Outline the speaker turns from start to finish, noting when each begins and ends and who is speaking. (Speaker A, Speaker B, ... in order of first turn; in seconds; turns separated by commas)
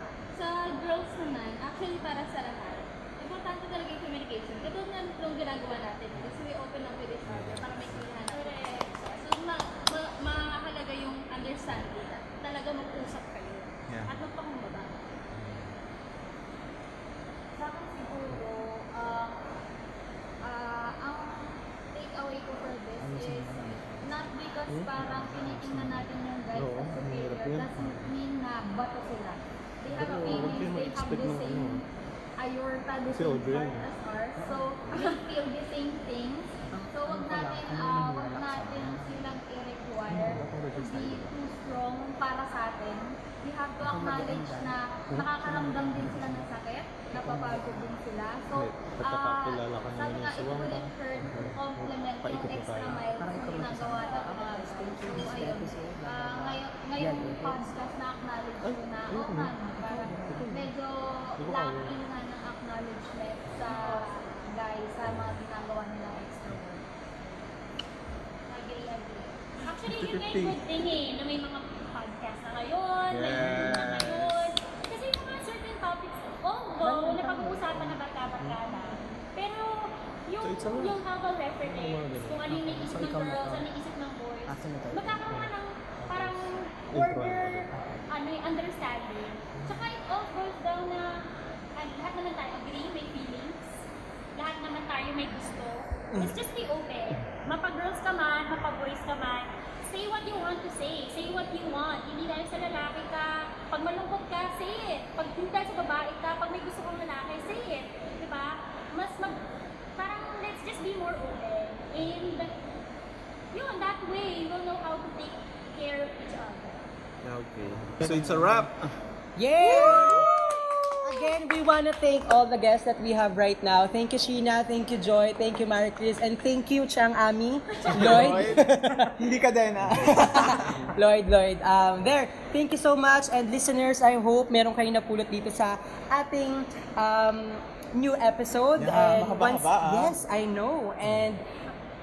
Speaker A: 0.3-14.9, Speaker B: 8.2-9.1, Speaker C: 13.9-14.2, Speaker C: 15.3-15.7, Speaker D: 17.6-19.4, Speaker D: 20.4-31.9, Speaker E: 26.6-27.8, Speaker E: 29.9-31.8, Speaker F: 30.1-30.4, Speaker D: 32.4-67.5, Speaker E: 33.1-33.9, Speaker F: 36.7-38.8, Speaker E: 40.3-41.3, Speaker F: 43.9-44.7, Speaker C: 48.9-49.4, Speaker E: 49.1-51.5, Speaker E: 52.2-53.1, Speaker F: 53.1-57.7, Speaker E: 61.4-62.0, Speaker B: 63.7-64.1, Speaker D: 68.5-69.0, Speaker B: 68.8-91.2, Speaker C: 70.0-70.4, Speaker C: 73.1-74.4, Speaker E: 73.5-73.7, Speaker F: 76.8-77.8, Speaker E: 80.4-81.0, Speaker E: 81.9-82.5, Speaker F: 82.7-83.7, Speaker F: 84.5-85.4, Speaker E: 86.9-87.7, Speaker B: 91.8-93.8, Speaker B: 94.4-109.4, Speaker B: 110.0-112.5, Speaker B: 113.5-116.9, Speaker E: 117.2-118.9, Speaker F: 119.4-129.2, Speaker D: 119.7-120.0, Speaker C: 119.8-120.2, Speaker C: 127.9-130.9, Speaker E: 128.0-128.6, Speaker F: 129.9-141.4, Speaker C: 138.8-140.1